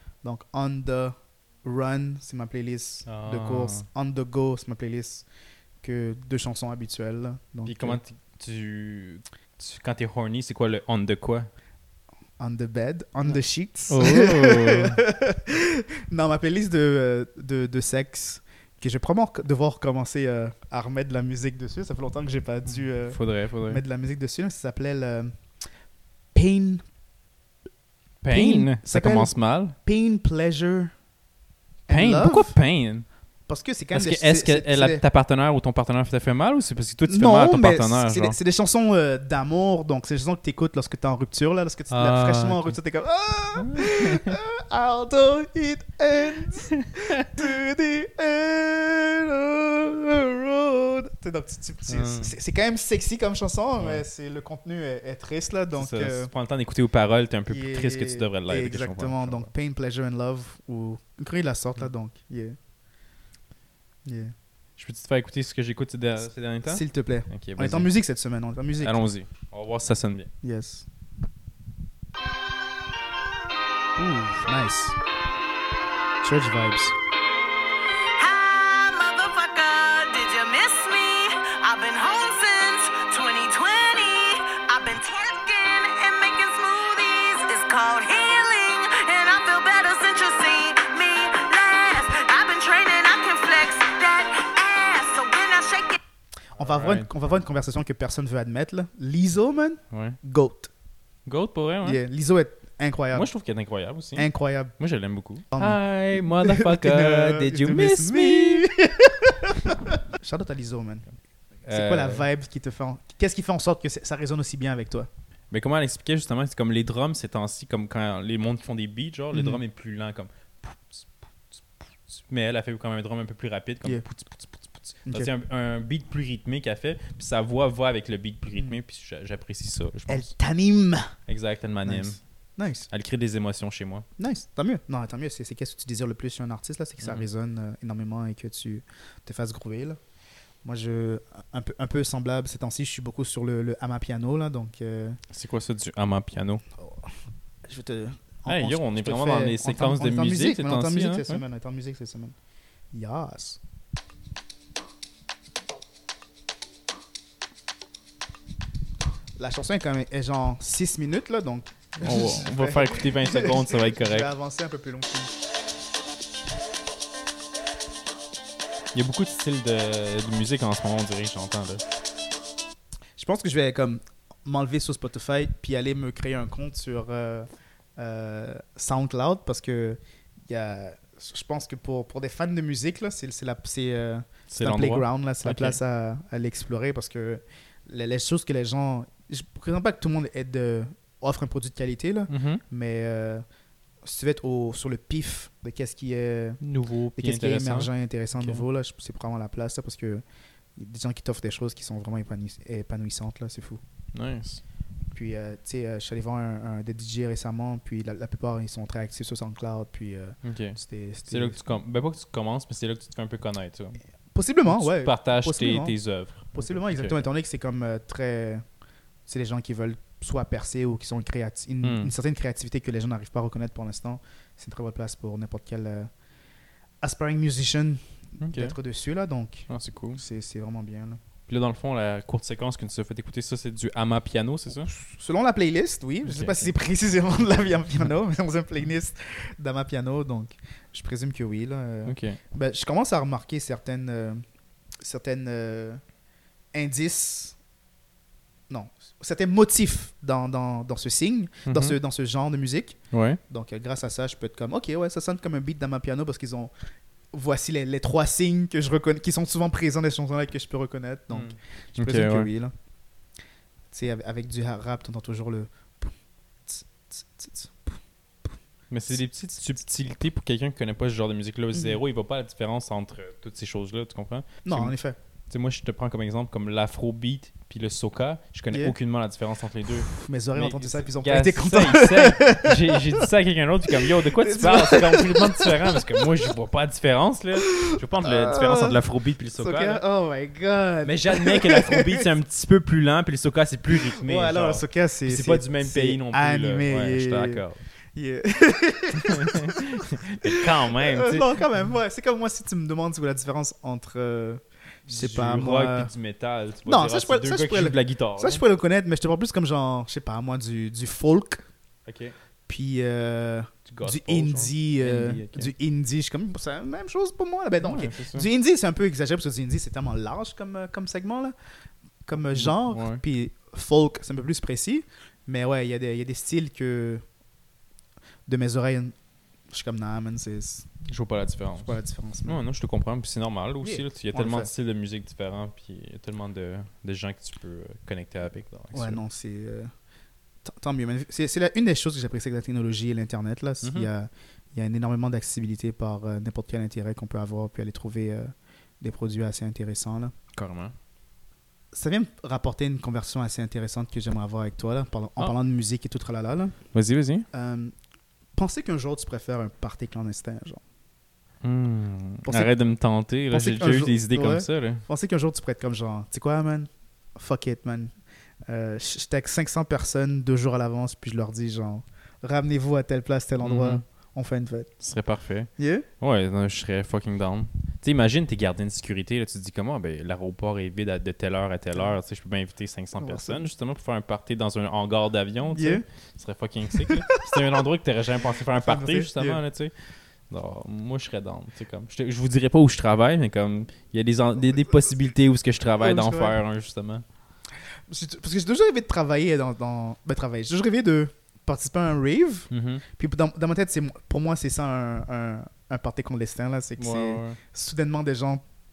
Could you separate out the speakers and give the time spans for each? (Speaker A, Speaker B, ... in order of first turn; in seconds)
Speaker A: 0.2-5.2, 5.8-8.0, 12.4-25.3, 26.3-26.8, 28.3-30.9, 31.9-32.5, 33.5-35.0, 37.0-56.3, 57.5-62.6, 64.0-64.3, 66.7-69.0, 70.4-70.8, 74.0-75.0, 76.2-76.9, 96.5-100.7, 101.8-103.3, 104.2-104.7, 105.5-111.0, 111.7-115.1, 119.3-119.6, 130.1-131.1, 131.8-132.9, 134.2-140.0, 140.6-145.2, 146.8-147.1, 147.7-152.3, 152.9-153.6, 159.4-165.3, 173.2-193.4, 194.0-196.6, 197.2-200.2, 200.8-203.8, 205.1-211.6, 214.3-215.9, 216.5-218.6, 219.3-226.1, 227.0-231.2, 234.8-244.4, 245.0-246.0, 246.7-247.6, 248.7-256.7, 257.3-262.7, 263.9-266.1, 266.6-267.9, 274.6-275.2, 280.0-283.2, 284.0-286.2, 287.7-289.0, 289.6-292.2, 294.2-297.6, 298.1-306.1, 306.8-311.6, 312.7-321.5, 322.2-327.2, 328.5-329.1, 329.7-330.9, 331.8-332.6, 333.8-334.7, 338.9-339.9, 340.6-350.3, 351.9-356.8, 357.5-357.9, 358.5-360.8, 362.4-362.7, 363.5-368.1, 368.7-374.9, 375.8-376.1, 383.2-383.6, 385.7-386.0, 387.0-387.6, 388.8-389.6, 396.0-396.6, 398.1-408.6
Speaker B: 3.0-3.9, 7.6-11.5, 13.9-15.0, 22.8-23.8, 28.2-29.7, 31.9-33.0, 33.9-38.4, 41.9-42.8, 43.5-44.4, 46.8-47.3, 51.9-52.3, 53.8-54.0, 55.7-59.5, 64.8-67.9, 68.8-70.3, 96.6-97.1, 99.9-100.2, 101.2-102.0, 103.1-108.7, 111.7-112.3, 115.5-121.0, 122.1-130.3, 131.3-132.2, 132.9-134.1, 137.0-137.3, 145.3-146.6, 148.5-151.4, 162.0-164.3, 168.9-171.8, 184.5-185.8, 192.3-192.6, 196.6-198.6, 204.1-204.6, 210.4-214.0, 214.7-217.3, 221.8-222.1, 228.4-228.8, 229.7-230.2, 231.5-234.9, 236.2-236.7, 242.1-242.4, 251.7-252.0, 253.1-253.4, 261.3-262.5, 268.9-274.9, 275.5-290.0, 291.0-297.8, 299.2-301.6, 305.1-308.6, 312.1-312.3, 313.9-315.7, 317.8-318.5, 322.4-323.2, 331.0-339.2, 343.8-344.1, 350.5-350.9, 356.9-357.5, 361.6-365.0, 373.6-374.0, 375.0-389.9, 390.5-397.2, 402.7-403.0, 407.0-407.6
Speaker C: 78.2-96.0